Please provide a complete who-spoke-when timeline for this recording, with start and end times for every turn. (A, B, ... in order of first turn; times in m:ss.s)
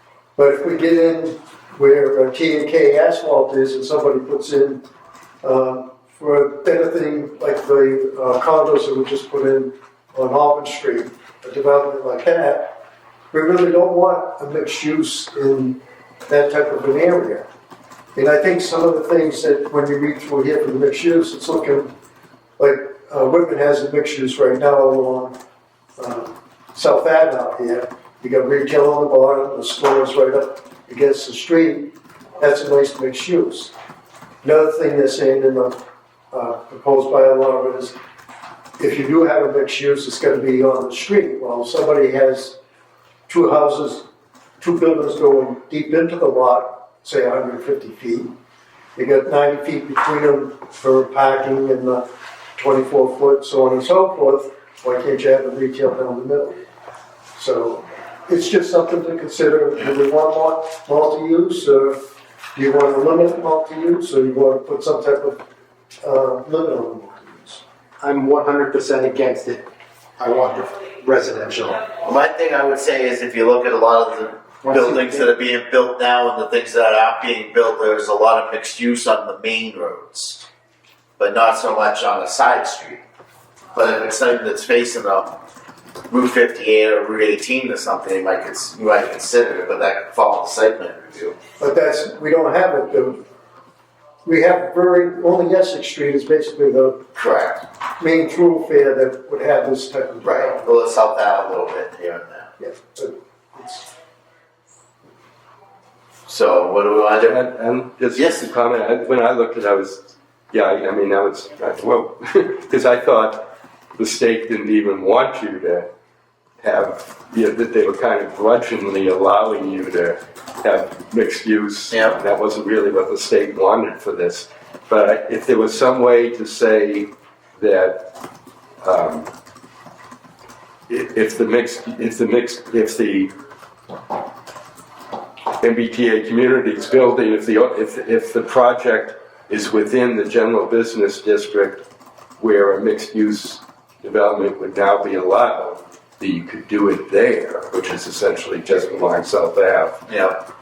0:00.4-0:04.9 A
0:05.4-0:12.8 A
0:13.3-0:17.5 A
0:18.2-0:21.9 A
0:22.6-0:25.4 A
0:26.0-0:33.7 A
0:34.4-0:35.8 A
0:36.3-0:38.0 A
0:38.8-0:42.6 A
0:43.3-0:44.1 A
0:44.6-0:48.3 A
0:49.0-0:56.6 A
0:57.4-1:02.0 A
1:02.6-1:05.4 A
1:06.0-1:07.6 A
1:08.0-1:11.8 B
1:12.0-1:20.4 C
1:14.6-1:15.3 B
1:21.2-1:23.0 C
1:23.7-1:25.4 C
1:26.1-1:31.4 C
1:31.6-1:33.2 A
1:34.2-1:37.1 A
1:37.1-1:37.6 C
1:38.0-1:40.7 A
1:40.2-1:42.5 C
1:42.6-1:43.9 A
1:46.3-1:47.4 C
1:47.2-1:55.9 D
1:48.2-1:48.5 C
1:56.6-2:08.1 D
2:01.9-2:02.2 C
2:08.8-2:09.3 D
2:10.9-2:13.3 D
2:15.6-2:21.8 D
2:22.4-2:30.1 D
2:30.1-2:30.4 C